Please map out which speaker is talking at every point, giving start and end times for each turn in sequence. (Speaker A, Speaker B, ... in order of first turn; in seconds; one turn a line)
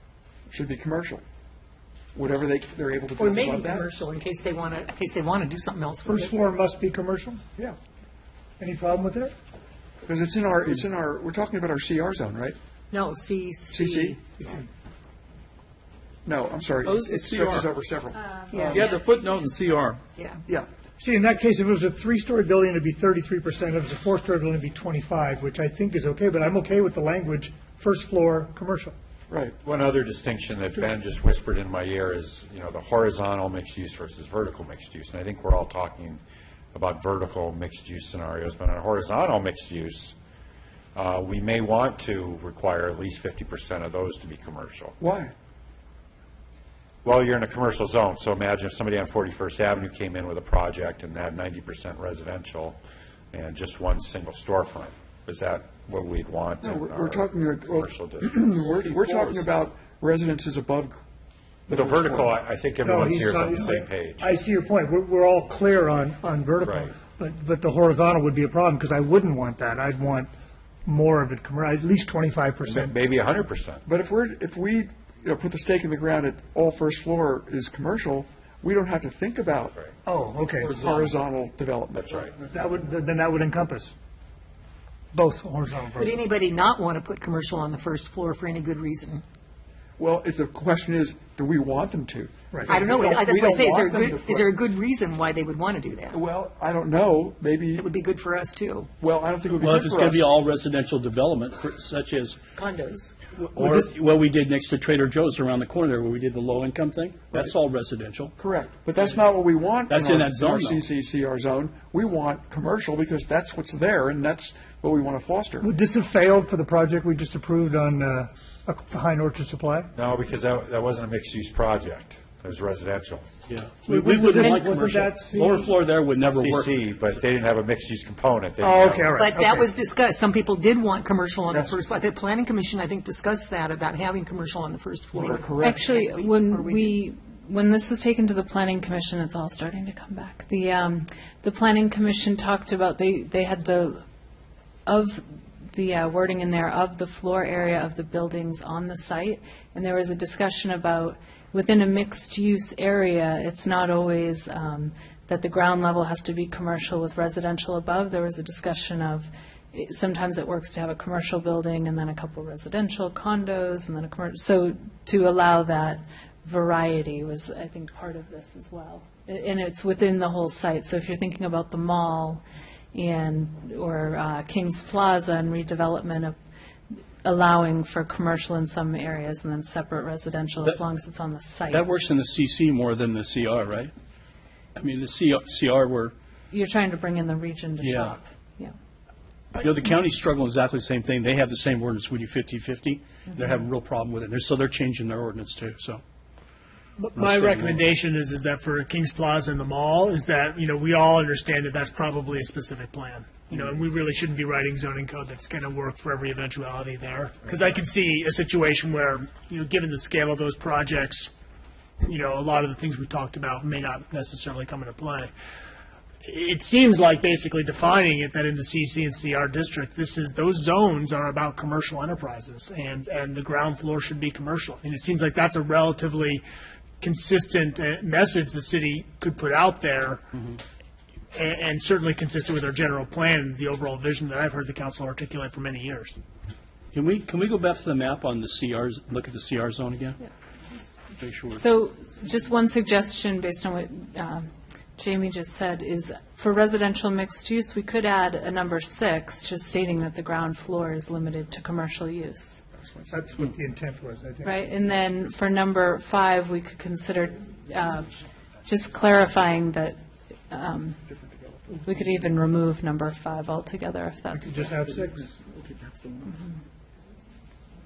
Speaker A: 0.5-1.2
Speaker A: 2.1-4.0
Speaker B: 3.2-6.2
Speaker C: 6.1-7.4
Speaker C: 8.6-9.3
Speaker A: 10.0-12.6
Speaker B: 12.9-14.2
Speaker A: 13.7-14.2
Speaker A: 16.2-18.2
Speaker D: 16.9-17.6
Speaker E: 18.5-19.4
Speaker B: 18.5-19.0
Speaker D: 18.7-20.0
Speaker C: 21.0-28.9
Speaker A: 29.3-29.6
Speaker F: 29.6-36.2
Speaker F: 36.7-40.1
Speaker F: 41.0-45.0
Speaker A: 45.0-45.3
Speaker F: 47.0-52.8
Speaker F: 53.3-59.5
Speaker A: 56.6-61.0
Speaker A: 61.7-62.4
Speaker F: 61.7-64.3
Speaker C: 62.8-70.3
Speaker F: 66.6-66.9
Speaker C: 70.9-73.0
Speaker F: 72.7-73.8
Speaker A: 73.9-79.8
Speaker C: 80.1-81.0
Speaker A: 80.6-82.1
Speaker F: 82.0-82.3
Speaker C: 82.3-83.9
Speaker C: 85.1-86.3
Speaker B: 86.0-89.2
Speaker A: 90.0-94.6
Speaker C: 92.5-93.2
Speaker B: 92.7-96.2
Speaker A: 96.1-97.9
Speaker B: 97.8-98.9
Speaker A: 99.0-100.3
Speaker G: 99.6-102.5
Speaker B: 102.5-103.1
Speaker G: 103.4-108.3
Speaker A: 108.4-115.7
Speaker G: 109.9-110.9
Speaker C: 115.6-119.9
Speaker F: 120.0-123.3
Speaker G: 123.5-127.1
Speaker C: 123.9-125.7
Speaker F: 126.2-129.2
Speaker C: 128.6-129.7
Speaker B: 129.2-137.0
Speaker A: 131.5-131.8
Speaker A: 135.1-136.0
Speaker E: 135.6-144.0
Speaker E: 144.9-172.4
Speaker E: 172.9-176.3
Speaker E: 177.2-182.0
Speaker G: 181.7-183.9
Speaker G: 184.8-186.1
Speaker E: 186.5-188.7
Speaker G: 187.8-188.2
Speaker G: 189.5-196.0
Speaker H: 197.0-211.3
Speaker G: 197.1-197.9
Speaker H: 212.0-215.3
Speaker H: 216.2-226.4
Speaker H: 227.0-230.2
Speaker H: 231.3-236.2
Speaker G: 236.9-240.2
Speaker G: 241.2-241.6
Speaker E: 241.6-252.6
Speaker C: 253.1-254.5
Speaker E: 254.4-258.1
Speaker E: 258.6-260.0
Speaker E: 260.5-261.0
Speaker E: 261.8-264.7
Speaker C: 264.4-265.3